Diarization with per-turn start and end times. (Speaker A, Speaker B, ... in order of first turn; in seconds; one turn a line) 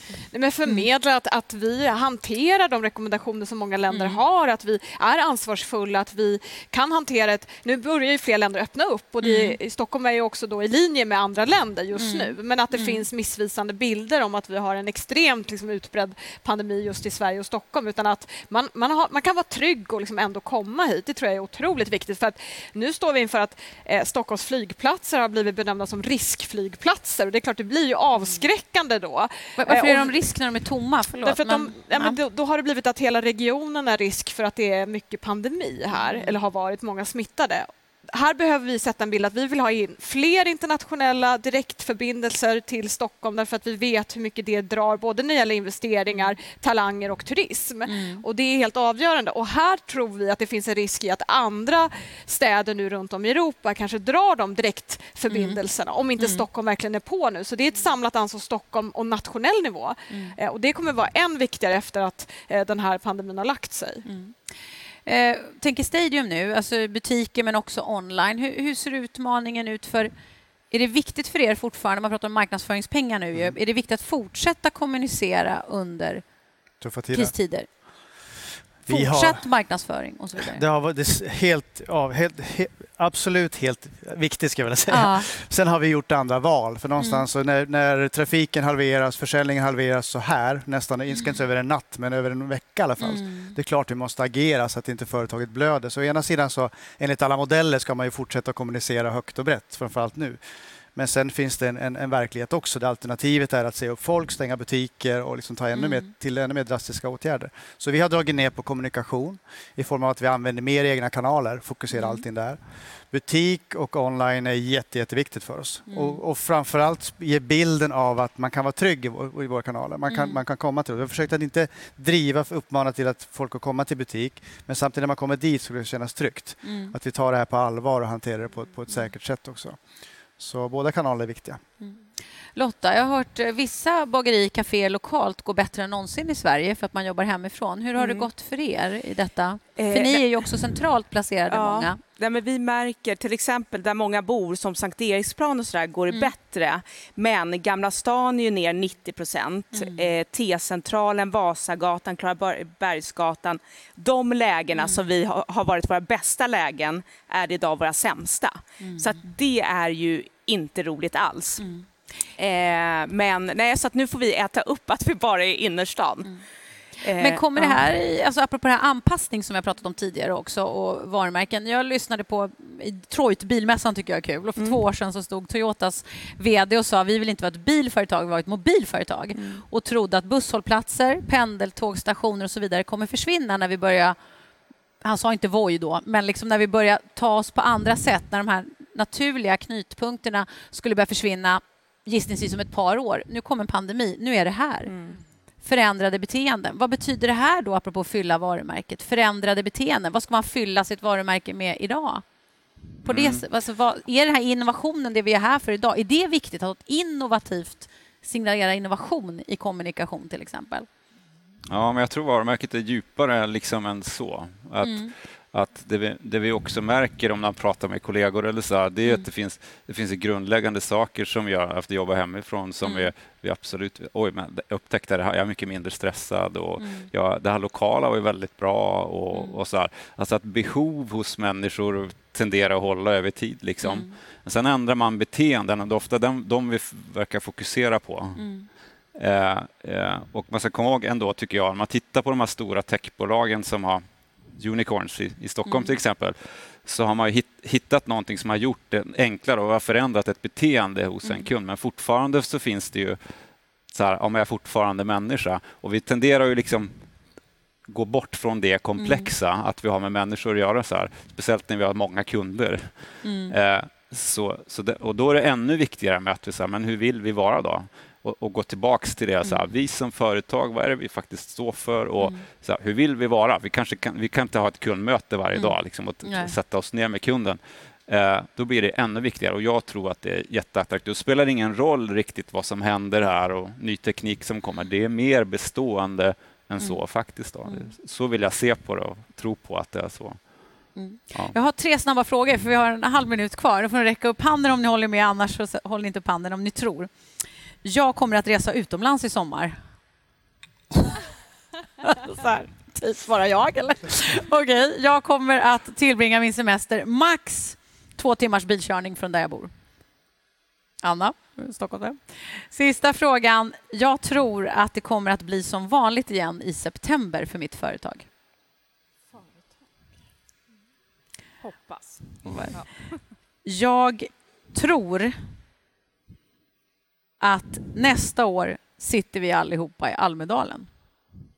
Speaker A: 0.3-30.1
Speaker B: 3.9-4.2
Speaker B: 9.2-9.6
Speaker B: 11.9-13.0
Speaker B: 29.6-32.2
Speaker A: 31.2-64.0
Speaker B: 35.9-36.3
Speaker B: 47.9-48.2
Speaker B: 55.3-55.6
Speaker B: 56.2-56.4
Speaker B: 60.1-60.3
Speaker B: 64.0-64.3
Speaker B: 65.0-70.1
Speaker B: 70.7-76.2
Speaker C: 76.8-77.3
Speaker B: 77.1-77.7
Speaker C: 78.8-79.4
Speaker B: 78.9-80.6
Speaker C: 80.4-100.4
Speaker B: 84.9-85.3
Speaker B: 87.0-87.3
Speaker B: 93.0-93.5
Speaker C: 100.9-112.6
Speaker B: 105.7-106.1
Speaker B: 111.9-112.2
Speaker C: 113.1-129.8
Speaker B: 115.9-116.2
Speaker B: 120.1-120.4
Speaker B: 126.6-126.9
Speaker C: 130.4-131.6
Speaker B: 132.5-142.0
Speaker D: 138.0-138.3
Speaker D: 139.8-140.5
Speaker D: 141.5-161.6
Speaker B: 149.7-150.1
Speaker B: 154.7-155.1
Speaker B: 158.8-159.2
Speaker B: 161.6-161.8
Speaker D: 162.4-166.3
Speaker D: 167.0-167.8
Speaker B: 167.2-184.2
Speaker D: 179.3-179.6
Speaker B: 185.0-194.9
Speaker D: 194.9-195.2
Speaker B: 195.6-202.2
Speaker B: 203.0-210.9
Speaker E: 203.0-203.4
Speaker E: 211.7-238.4
Speaker B: 214.8-215.1
Speaker B: 222.8-223.1
Speaker B: 226.8-227.1
Speaker B: 229.3-229.6
Speaker B: 233.8-234.1
Speaker B: 238.4-238.7
Speaker E: 239.1-253.2
Speaker B: 245.7-245.9
Speaker E: 253.9-256.9
Speaker E: 257.9-290.4
Speaker B: 259.0-259.3
Speaker B: 263.2-263.5
Speaker B: 272.2-272.4
Speaker B: 275.5-276.5
Speaker B: 290.9-297.1
Speaker B: 297.8-299.8
Speaker B: 302.0-309.7
Speaker B: 311.0-318.3
Speaker D: 321.6-322.9
Speaker B: 322.4-322.8
Speaker B: 323.6-325.4
Speaker B: 327.4-330.9